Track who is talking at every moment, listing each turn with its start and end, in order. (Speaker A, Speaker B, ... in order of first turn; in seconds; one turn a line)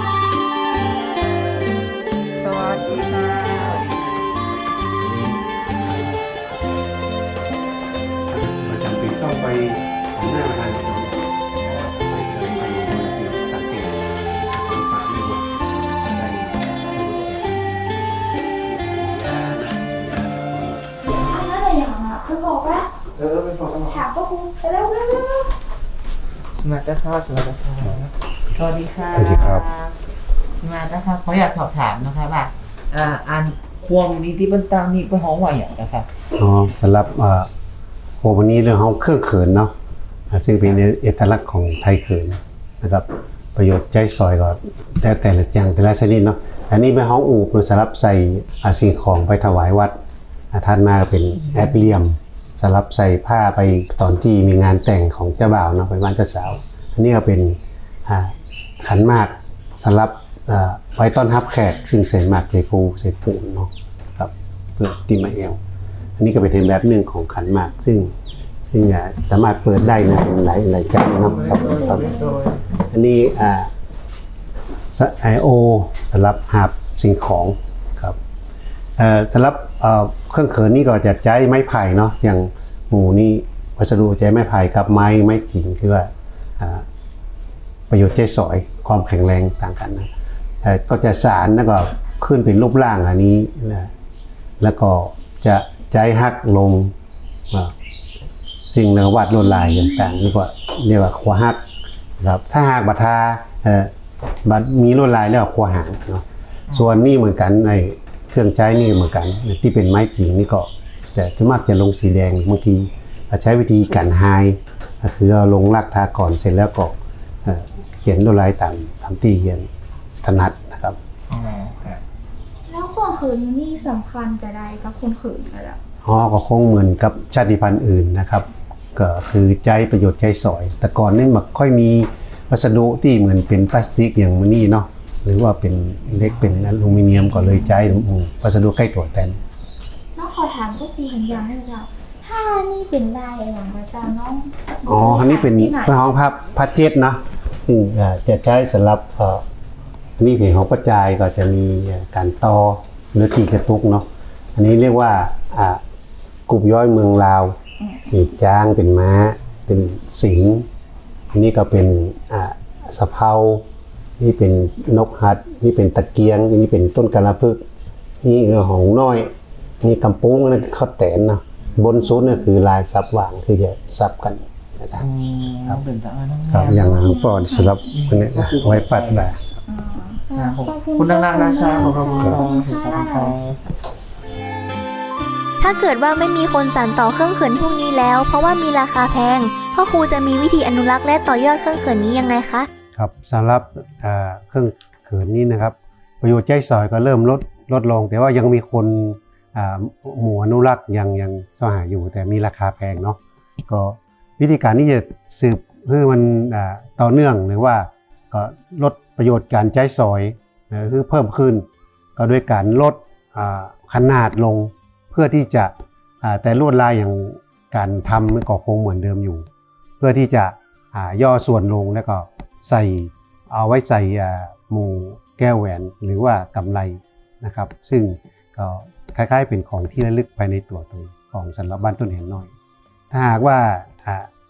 Speaker A: 2.9-3.4
Speaker B: 5.0-6.0
Speaker B: 8.3-17.7
Speaker B: 18.6-20.8
Speaker A: 21.2-23.0
Speaker C: 23.3-23.8
Speaker A: 23.7-25.5
Speaker C: 26.5-30.0
Speaker B: 29.1-29.7
Speaker C: 30.6-36.1
Speaker B: 36.3-37.5
Speaker B: 38.2-39.7
Speaker B: 40.3-50.0
Speaker B: 50.5-65.6
Speaker B: 66.2-68.1
Speaker B: 68.7-72.2
Speaker A: 71.4-72.5
Speaker B: 72.9-73.7
Speaker B: 75.0-78.2
Speaker B: 79.0-86.8
Speaker B: 87.9-90.1
Speaker B: 90.6-93.9
Speaker B: 94.6-96.9
Speaker B: 98.7-101.6
Speaker A: 99.6-100.1
Speaker B: 102.2-103.9
Speaker B: 104.5-116.9
Speaker B: 117.5-119.7
Speaker B: 120.2-121.0
Speaker C: 121.3-122.0
Speaker A: 122.7-125.8
Speaker B: 126.0-139.4
Speaker C: 136.2-137.1
Speaker A: 137.4-137.9
Speaker A: 140.2-145.9
Speaker B: 144.9-149.4
Speaker B: 150.2-155.8
Speaker B: 156.5-157.5
Speaker A: 157.8-158.2
Speaker B: 158.1-160.7
Speaker B: 161.3-163.7
Speaker B: 164.2-167.6
Speaker B: 168.2-175.1
Speaker C: 175.0-176.9
Speaker B: 176.5-179.4
Speaker A: 176.9-177.9
Speaker C: 177.9-179.3
Speaker A: 179.7-183.5
Speaker C: 180.3-183.6
Speaker B: 181.7-182.4
Speaker D: 185.6-192.7
Speaker B: 192.9-219.5
Speaker B: 220.0-232.5
Speaker B: 233.1-234.3